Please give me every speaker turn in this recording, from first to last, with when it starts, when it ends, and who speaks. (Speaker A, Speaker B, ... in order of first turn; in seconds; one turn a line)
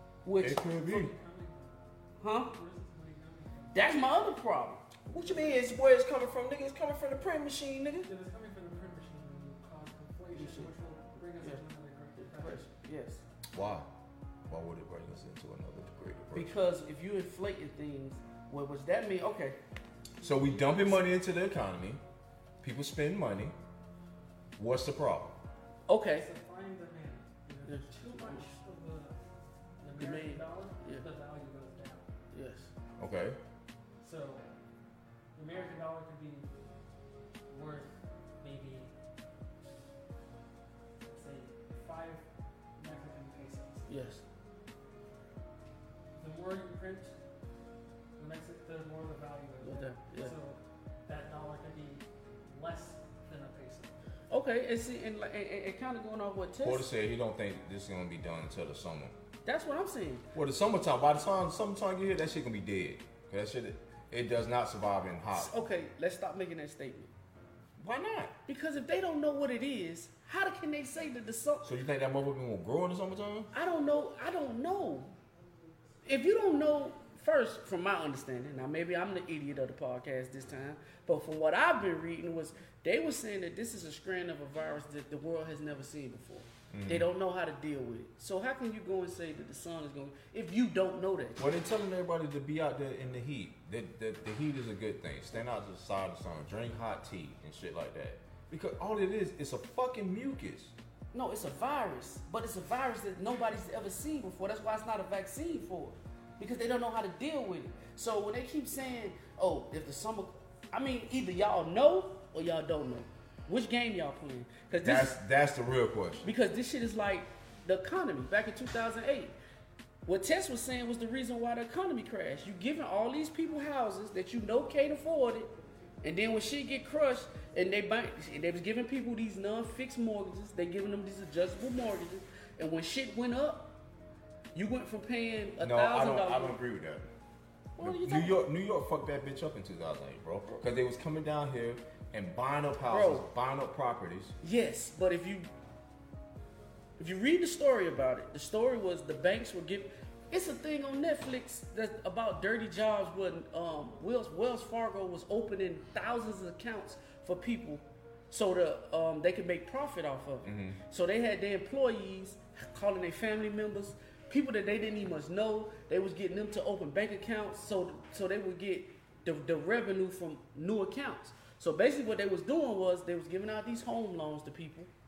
Speaker A: 0.2-0.6
Speaker B: 0.4-1.1
Speaker C: 0.7-1.9
Speaker A: 2.2-2.5
Speaker C: 2.5-4.2
Speaker A: 3.7-4.8
Speaker B: 5.1-8.1
Speaker C: 5.2-5.6
Speaker C: 8.1-12.7
Speaker A: 10.3-10.7
Speaker A: 12.2-13.2
Speaker B: 13.5-13.9
Speaker B: 14.5-16.6
Speaker A: 16.3-19.6
Speaker B: 20.2-22.0
Speaker A: 20.6-20.9
Speaker B: 22.6-23.6
Speaker B: 24.6-25.4
Speaker A: 25.9-26.3
Speaker C: 26.1-29.2
Speaker A: 27.6-28.5
Speaker C: 29.8-32.1
Speaker A: 30.0-31.1
Speaker A: 32.3-32.7
Speaker B: 33.0-33.4
Speaker C: 34.0-34.5
Speaker C: 35.4-36.5
Speaker C: 37.5-38.9
Speaker C: 41.0-42.2
Speaker C: 42.8-43.9
Speaker A: 43.9-44.2
Speaker C: 46.2-47.1
Speaker C: 48.2-54.1
Speaker A: 49.6-50.4
Speaker A: 54.3-56.9
Speaker B: 56.6-59.1
Speaker A: 59.5-60.3
Speaker B: 60.3-65.6
Speaker A: 65.3-67.1
Speaker B: 67.8-68.3
Speaker A: 68.5-71.8
Speaker B: 71.6-73.5
Speaker A: 73.5-75.1
Speaker A: 76.0-91.4
Speaker B: 86.7-87.1
Speaker B: 91.4-100.7
Speaker A: 101.1-115.2
Speaker B: 114.8-116.3
Speaker A: 116.2-119.3
Speaker A: 120.1-133.8
Speaker A: 134.5-136.6
Speaker B: 135.6-137.1
Speaker A: 137.8-138.4
Speaker B: 137.8-144.4
Speaker A: 142.9-143.3
Speaker A: 144.4-145.5
Speaker A: 147.0-174.9
Speaker B: 160.4-160.8